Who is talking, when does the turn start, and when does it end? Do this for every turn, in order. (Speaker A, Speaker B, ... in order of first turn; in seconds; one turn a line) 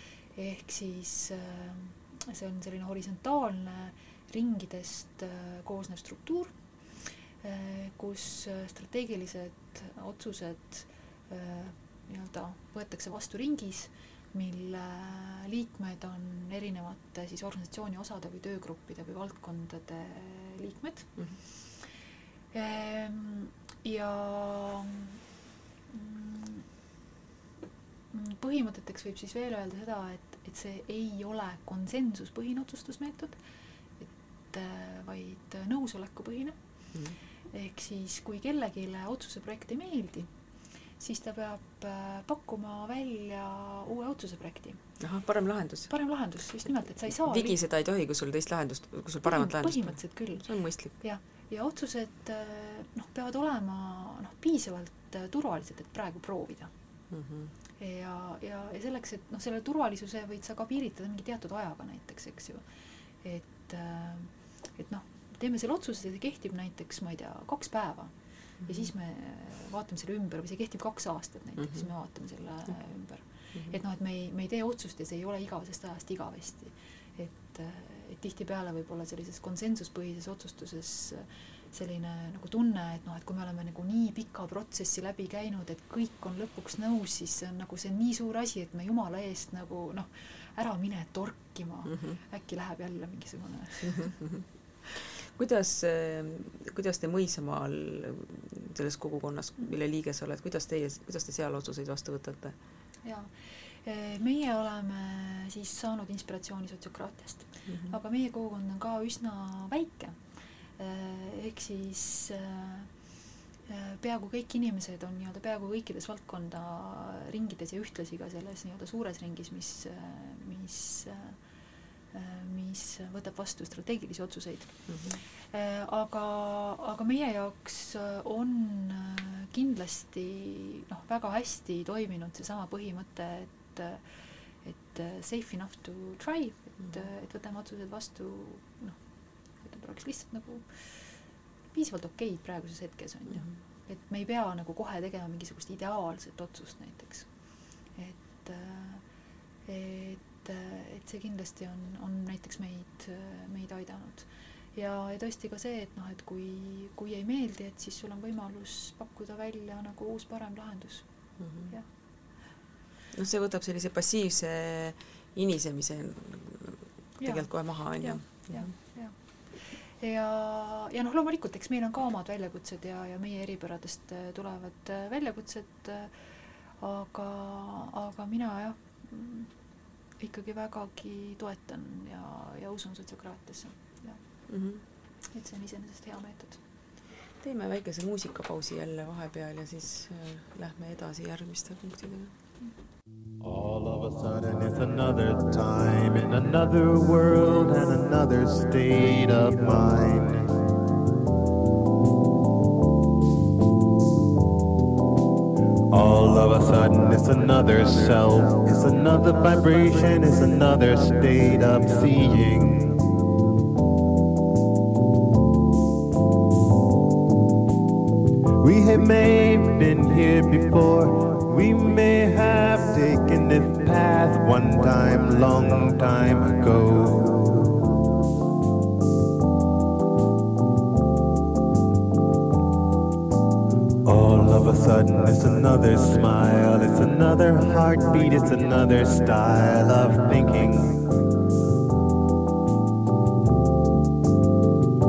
Speaker A: 0.3-6.5
Speaker A: 7.4-21.2
Speaker A: 22.5-25.1
Speaker A: 25.9-26.7
Speaker A: 28.1-33.4
Speaker A: 34.0-36.6
Speaker A: 37.5-40.3
Speaker A: 41.0-44.8
Speaker B: 45.0-45.9
Speaker A: 45.9-47.6
Speaker B: 47.2-50.9
Speaker A: 49.2-50.4
Speaker A: 51.0-56.7
Speaker B: 57.1-57.5
Speaker A: 57.8-62.6
Speaker A: 63.2-94.2
Speaker B: 68.6-68.9
Speaker B: 71.6-71.8
Speaker B: 91.9-92.2
Speaker B: 95.3-102.5
Speaker A: 103.0-110.2
Speaker A: 110.8-112.9
Speaker A: 113.7-121.4
Speaker A: 122.1-134.1
Speaker B: 124.9-125.2
Speaker A: 134.6-139.0
Speaker A: 139.6-141.1
Speaker A: 141.7-147.3
Speaker A: 147.9-149.0
Speaker A: 149.7-161.1
Speaker B: 161.4-161.7
Speaker B: 163.1-168.7
Speaker A: 167.2-167.5
Speaker A: 168.0-176.1
Speaker A: 176.8-179.5
Speaker A: 180.2-184.2
Speaker B: 184.5-184.8
Speaker A: 185.3-186.6
Speaker B: 187.4-192.3
Speaker C: 193.4-200.5
Speaker C: 205.9-213.0
Speaker C: 218.6-227.8
Speaker C: 234.0-241.0